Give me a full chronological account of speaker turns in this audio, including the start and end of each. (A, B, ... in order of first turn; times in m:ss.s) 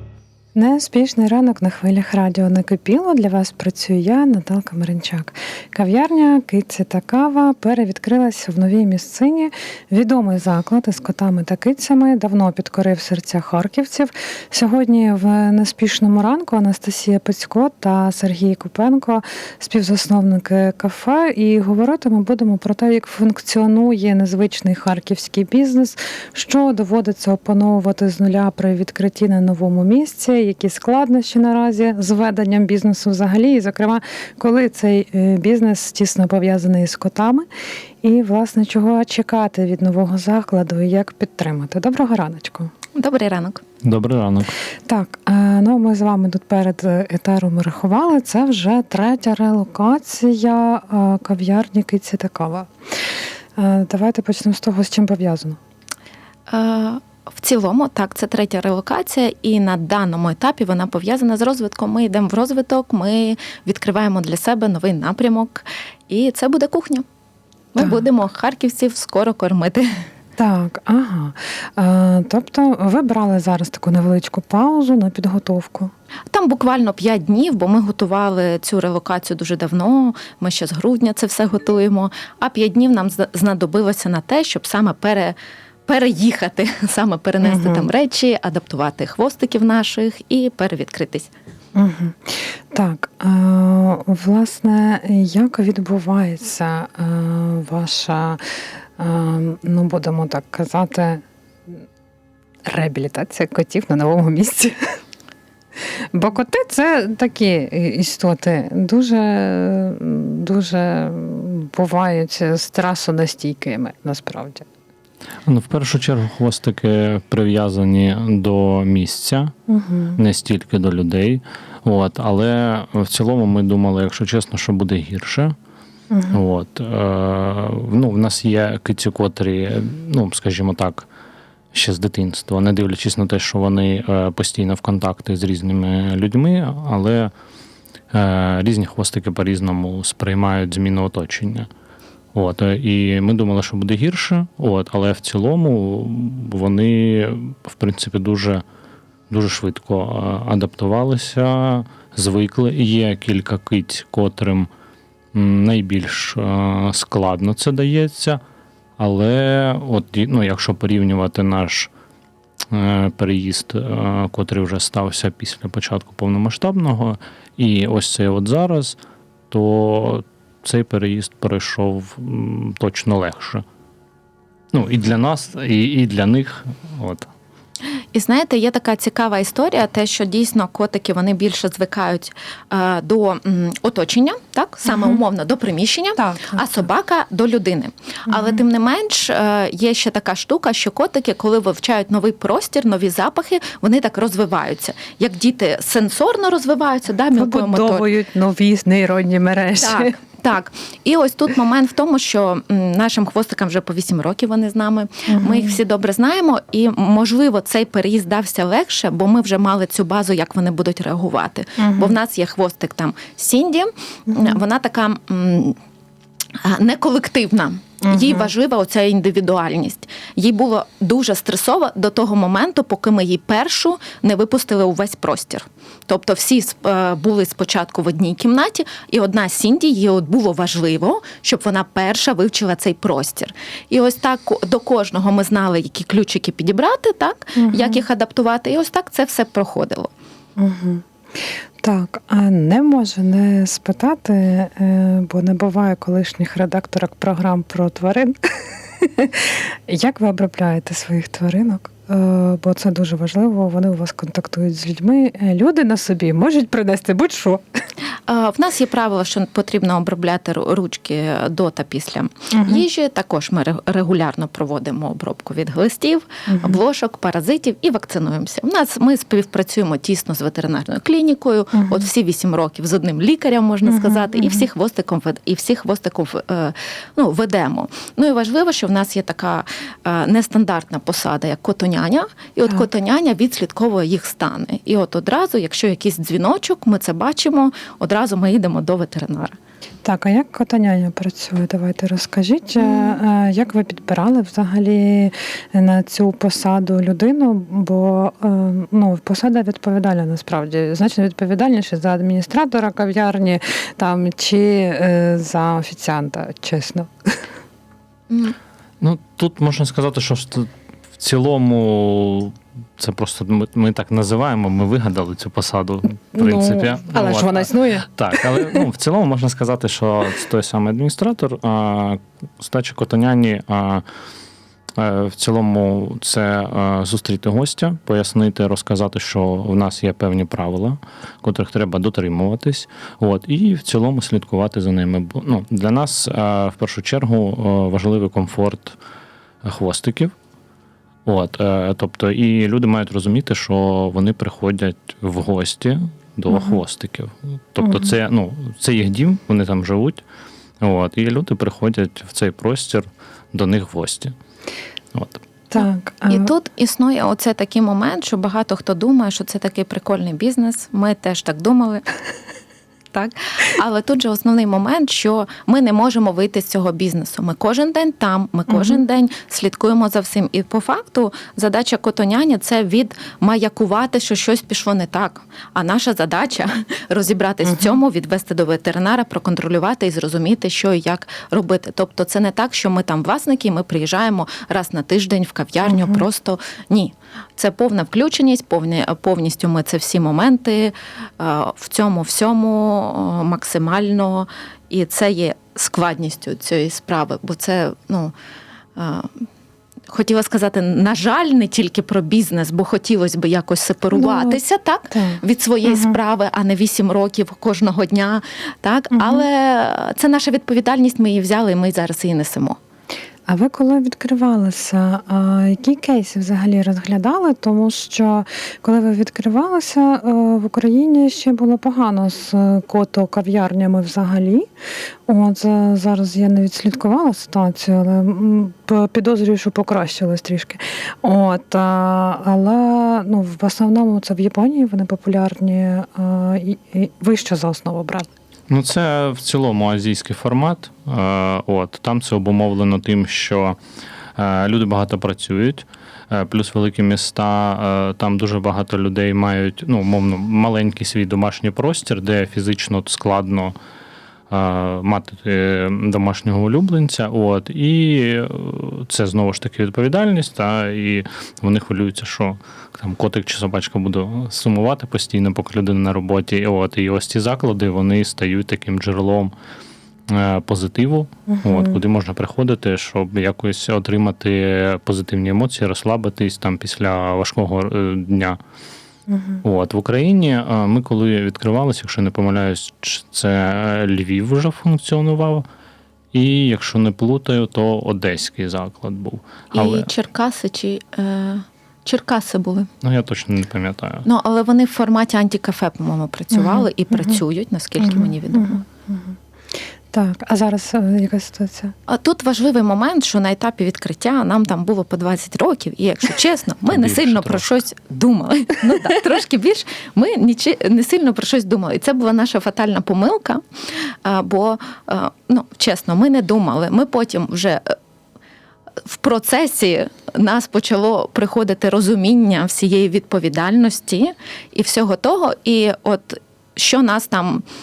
0:00.5-0:37.5 A
0:38.0-0:42.7 A
0:42.9-0:43.6 B
0:43.8-0:44.6 C
0:44.9-0:52.7 A
0:53.6-0:55.6 A
0:56.5-1:07.0 B
1:07.7-1:10.0 B
1:10.4-1:15.9 A
1:16.3-1:31.3 B
1:27.4-1:27.8 A
1:31.8-1:38.4 A
1:39.0-1:41.2 A
1:42.7-1:44.8 A
1:46.1-1:54.6 A
1:55.4-1:59.5 C
1:59.7-2:00.2 A
2:00.2-2:05.5 C
2:06.1-2:06.4 A
2:06.3-2:11.1 C
2:11.7-2:17.3 C
2:18.1-2:21.7 C
2:22.3-2:28.6 C
2:29.3-2:34.7 C
2:35.3-2:38.4 C
2:39.0-2:41.9 C
2:42.7-2:49.0 C
2:49.5-2:53.6 C
2:54.7-2:57.3 C
2:58.1-3:18.1 B
3:04.9-3:05.2 A
3:06.2-3:06.6 A
3:17.4-3:20.1 A
3:19.8-3:35.8 B
3:25.3-3:25.7 A
3:36.6-4:00.1 B
3:57.6-3:58.0 A
4:00.6-4:01.0 A
4:01.8-4:17.6 A
4:18.3-4:49.5 B
4:22.5-4:22.8 A
4:26.5-4:26.8 A
4:50.0-5:07.1 A
5:08.3-5:08.6 B
5:09.0-5:24.0 C
5:16.4-5:18.8 A
5:25.0-5:39.0 C
5:39.6-5:40.3 C
5:41.2-5:50.2 C
5:50.8-5:54.3 C
5:55.1-5:55.4 C
5:55.7-5:56.4 A
5:55.8-6:02.0 B
6:03.1-6:38.3 B
6:38.9-6:39.3 B
6:40.1-6:52.8 B
6:44.1-6:44.6 A
6:45.1-6:45.4 A
6:49.1-6:49.4 A
6:53.5-7:04.7 A
7:05.3-7:18.3 A
7:18.7-7:23.8 C
7:24.4-7:33.8 C
7:34.5-7:49.5 C
7:50.3-7:58.6 C
7:51.5-7:52.0 A
7:59.3-7:59.6 A
7:59.6-8:05.6 C
8:06.3-8:10.1 C
8:09.7-8:12.9 B
8:13.0-8:14.2 C
8:14.2-8:18.8 B
8:18.0-8:19.4 A
8:20.1-8:21.9 A
8:22.1-8:33.6 B
8:26.8-8:27.8 C
8:34.2-8:37.9 B
8:39.0-8:47.6 B